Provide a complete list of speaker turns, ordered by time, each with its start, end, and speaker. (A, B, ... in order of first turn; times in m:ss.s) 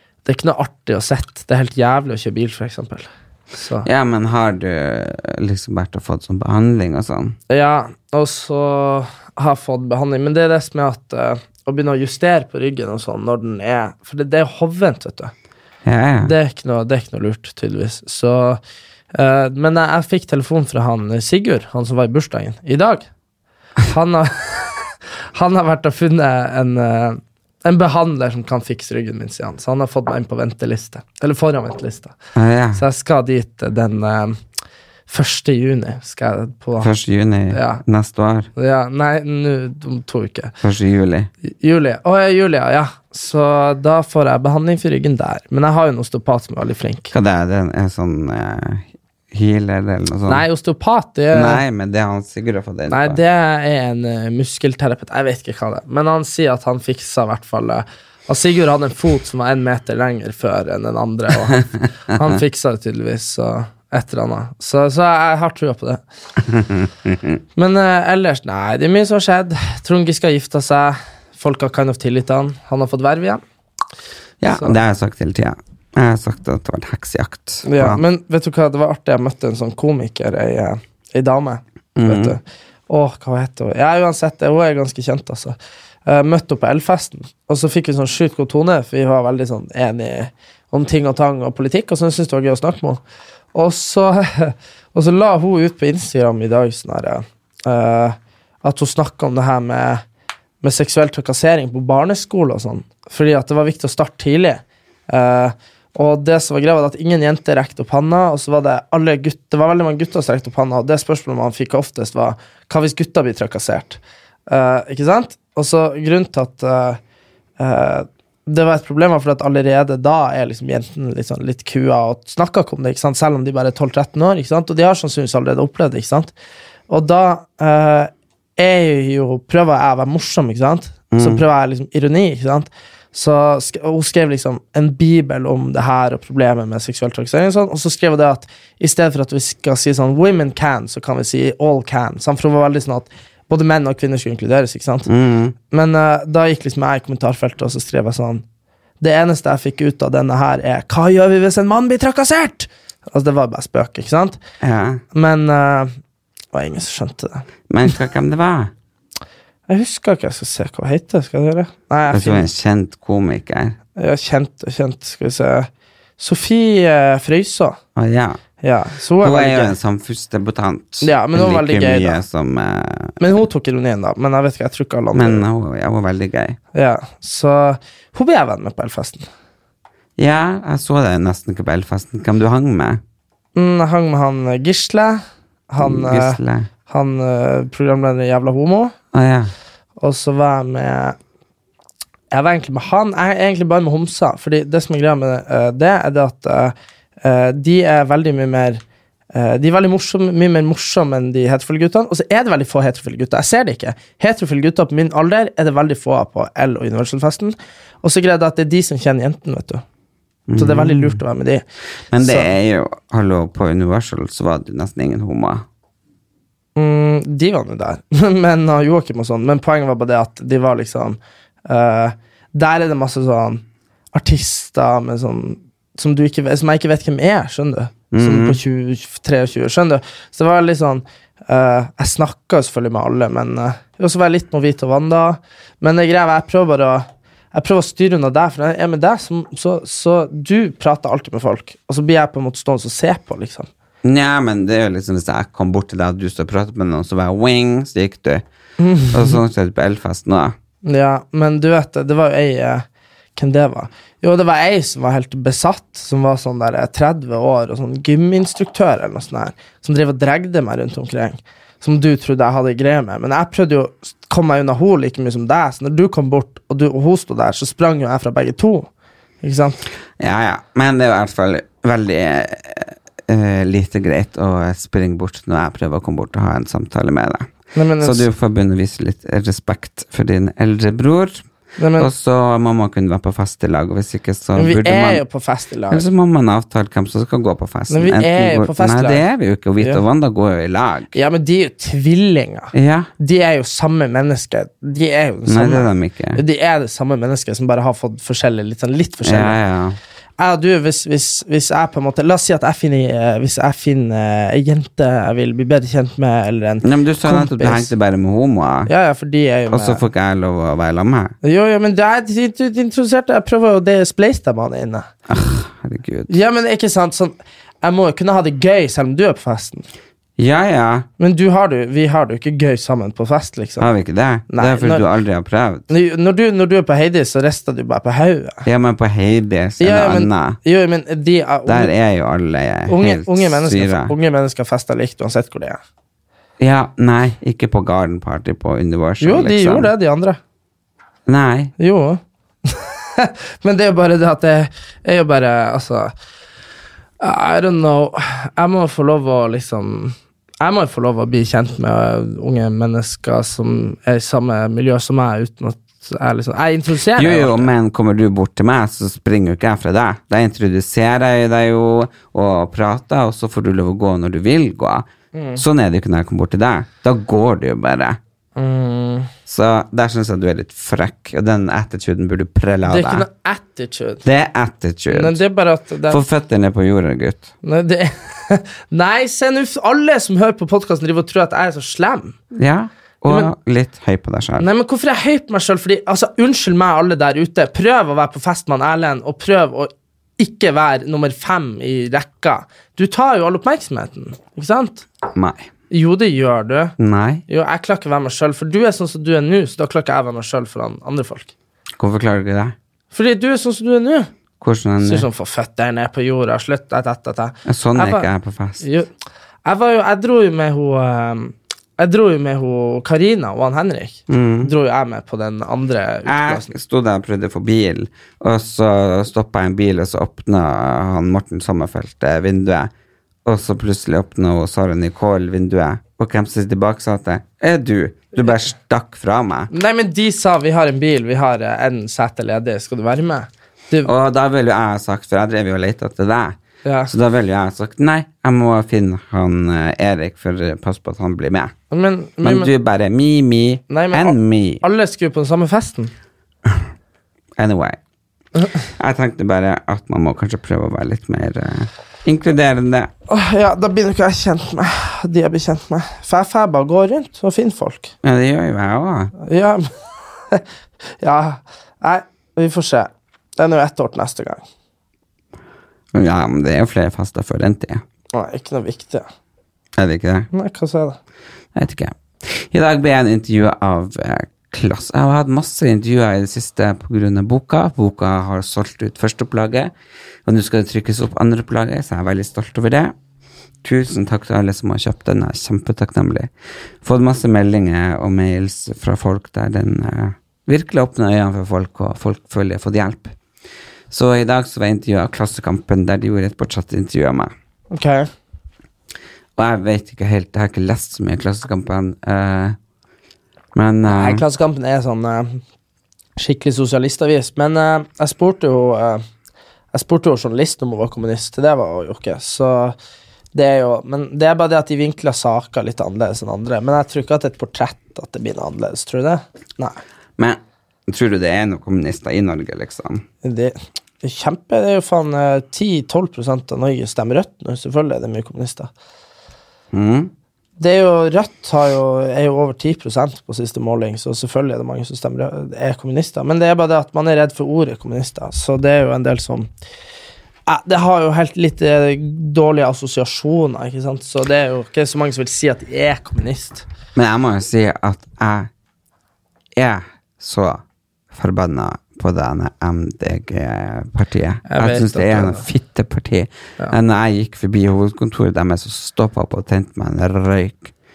0:00.2-0:03.9 A
0:03.8-0:07.4 B
0:07.5-0:15.3 A
0:15.8-0:16.3 B
0:16.2-0:18.6 A
0:19.1-0:23.1 A
0:23.9-0:32.1 A
0:32.3-0:32.8 B
0:32.7-0:34.4 A
0:35.1-0:36.9 A
0:36.8-0:38.5 B
0:37.5-0:37.8 A
0:38.6-0:40.5 A
0:40.6-0:41.3 B
0:41.4-0:47.1 A
0:47.1-0:50.4 B
0:50.3-0:51.6 A
0:51.3-0:53.2 B
0:52.9-1:06.0 A
1:06.4-1:07.4 B
1:07.6-1:13.4 A
1:14.4-1:18.0 B
1:14.5-1:14.8 A
1:17.6-1:33.0 A
1:22.0-1:22.4 B
1:33.5-1:40.0 A
1:40.6-1:57.0 A
1:57.6-2:06.3 A
2:06.9-2:25.1 A
2:11.1-2:11.4 B
2:25.1-2:25.6 B
2:25.7-2:28.4 A
2:29.0-2:34.4 A
2:34.6-2:35.0 B
2:35.1-2:35.9 A
2:36.5-2:37.4 A
2:37.7-2:38.7 B
2:39.7-2:42.4 A
2:42.1-2:43.8 B
2:44.0-2:47.8 A
2:48.0-2:48.4 B
2:48.6-2:49.7 A
2:49.2-2:53.2 B
2:51.0-2:52.2 A
2:53.2-2:55.4 A
2:55.1-2:56.6 B
2:56.7-2:59.2 A
3:00.2-3:03.0 B
3:03.6-3:08.9 A
3:05.8-3:06.7 B
3:09.1-3:09.5 B
3:10.0-3:11.2 A
3:12.3-3:18.8 A
3:19.3-3:29.8 A
3:30.5-3:31.2 B
3:30.6-3:31.6 A
3:32.1-3:35.6 B
3:32.2-3:32.5 A
3:36.8-4:03.7 A
3:48.1-3:48.6 B
4:04.0-4:08.4 B
4:08.8-4:09.4 A
4:09.1-4:10.5 B
4:10.8-4:12.8 A
4:13.4-4:28.9 A
4:29.4-4:29.8 A
4:30.2-4:41.4 B
4:37.7-4:38.3 A
4:41.8-4:42.1 A
4:42.0-4:45.2 B
4:44.6-4:46.1 A
4:45.9-4:51.1 B
4:47.9-4:49.2 A
4:51.1-4:59.6 A
4:52.7-4:53.1 B
4:55.5-4:56.4 B
4:59.2-5:00.0 B
5:00.4-5:07.9 A
5:06.8-5:08.9 B
5:08.9-5:10.0 A
5:09.7-5:11.3 B
5:11.4-5:15.1 A
5:15.3-5:16.4 B
5:16.3-5:19.9 A
5:20.4-5:21.1 B
5:21.2-5:23.9 A
5:23.8-5:25.8 B
5:24.5-5:25.0 A
5:25.9-5:28.6 A
5:28.6-5:30.6 B
5:29.8-5:31.9 A
5:31.6-5:34.1 B
5:32.9-5:35.8 A
5:36.6-5:39.9 B
5:39.2-5:40.4 A
5:41.2-5:41.7 B
5:41.8-5:46.1 A
5:47.2-5:57.7 A
5:57.1-6:08.2 B
6:05.3-6:05.6 A
6:08.6-6:09.3 A
6:09.5-6:13.3 B
6:12.9-6:14.2 A
6:14.2-6:15.4 B
6:15.1-6:16.2 A
6:16.1-6:17.5 B
6:17.6-6:22.4 A
6:22.5-6:24.7 B
6:24.6-6:35.1 A
6:35.3-6:35.7 B
6:35.9-6:36.9 A
6:37.0-6:37.4 B
6:37.5-6:41.5 A
6:42.0-6:42.7 B
6:43.1-6:44.3 A
6:44.6-6:45.3 B
6:45.0-6:48.3 A
6:47.6-6:48.8 B
6:48.8-6:49.1 A
6:49.6-6:56.7 A
6:54.3-6:54.7 B
6:56.2-7:02.9 B
7:03.4-7:09.7 B
7:09.7-7:14.1 A
7:14.0-7:21.7 B
7:16.8-7:17.1 A
7:21.9-7:22.7 A
7:22.4-7:24.8 B
7:23.9-7:26.1 A
7:27.6-7:28.0 B
7:28.8-7:33.1 B
7:33.3-7:38.1 A
7:38.2-7:39.3 B
7:39.4-7:40.6 A
7:41.2-7:44.6 A
7:46.1-7:48.0 B
7:48.3-7:49.2 A
7:50.0-7:50.5 B
7:50.5-7:51.2 A
7:51.7-7:59.9 B
8:00.4-8:03.1 B
8:03.8-8:06.5 B
8:07.0-8:13.3 B
8:14.1-8:17.5 B
8:17.9-8:18.3 A
8:19.6-8:22.8 B
8:23.7-8:24.4 B
8:24.1-8:25.6 A
8:26.4-8:29.2 A
8:29.9-8:33.0 A
8:33.5-8:40.0 A
8:40.4-8:43.2 B
8:43.4-8:48.9 A
8:49.9-8:50.3 B
8:50.8-8:59.7 A
9:00.7-9:06.8 A
9:07.1-9:08.7 B
9:09.8-9:10.8 B
9:11.3-9:20.9 B
9:14.7-9:15.6 A